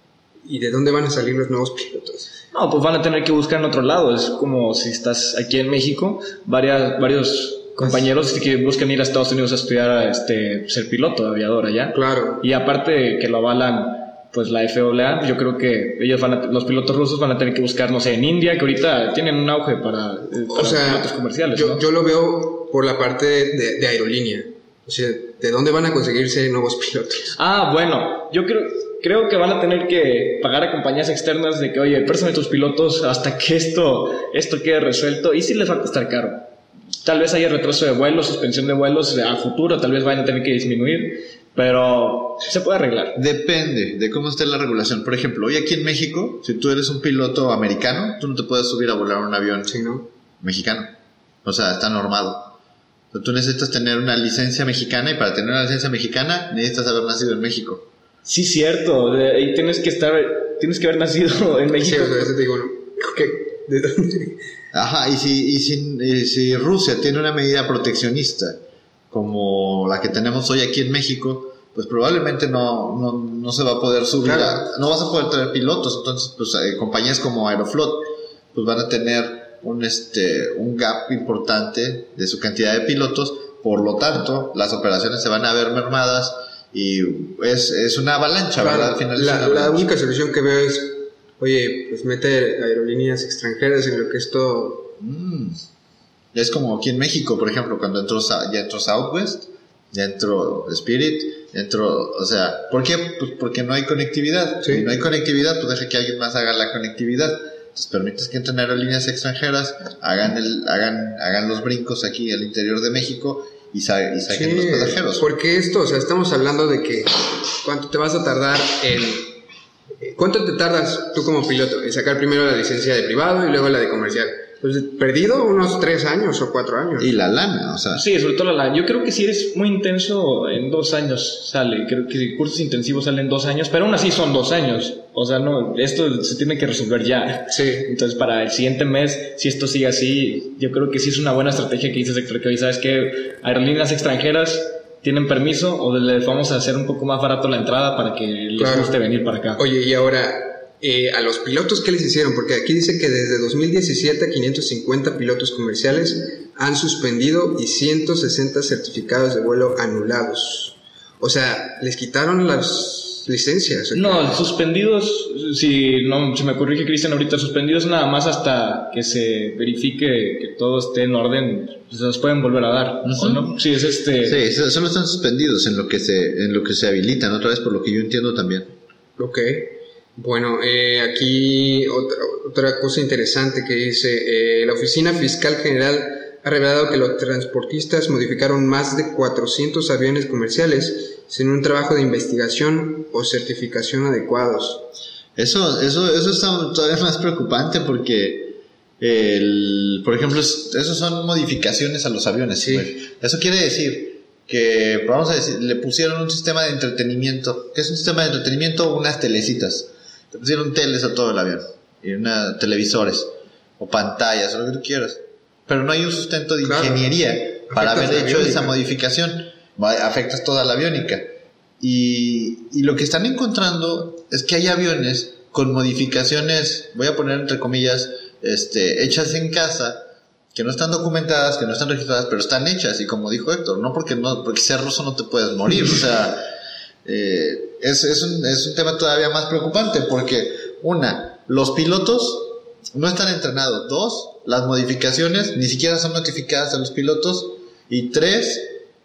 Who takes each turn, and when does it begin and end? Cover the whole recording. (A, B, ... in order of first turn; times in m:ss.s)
0:00.4-0:02.3 A
0:02.5-0:21.8 B
0:11.9-0:12.4 A
0:20.5-0:27.3 A
0:27.3-0:36.5 B
0:37.0-0:43.2 B
0:43.1-0:49.7 C
0:49.7-0:50.1 A
0:50.4-0:50.9 C
0:51.4-0:52.6 C
0:53.1-0:57.8 C
0:58.2-1:02.3 B
1:01.8-1:04.4 A
1:04.7-1:08.6 C
1:09.1-1:29.9 C
1:14.2-1:14.6 A
1:28.6-1:34.9 A
1:35.0-1:35.6 C
1:36.3-1:55.2 C
1:44.6-1:44.9 A
1:54.3-1:59.4 A
2:00.0-2:07.1 A
2:07.0-2:08.0 C
2:07.9-2:29.6 B
2:17.5-2:17.9 A
2:28.6-2:29.0 A
2:29.6-2:44.4 A
2:43.9-2:54.4 B
2:53.0-2:53.5 C
2:54.2-2:58.7 C
2:59.2-3:14.9 A
3:15.4-3:56.4 C
3:22.6-3:22.9 A
3:36.6-3:37.1 A
3:37.7-3:38.7 A
3:57.0-4:08.7 C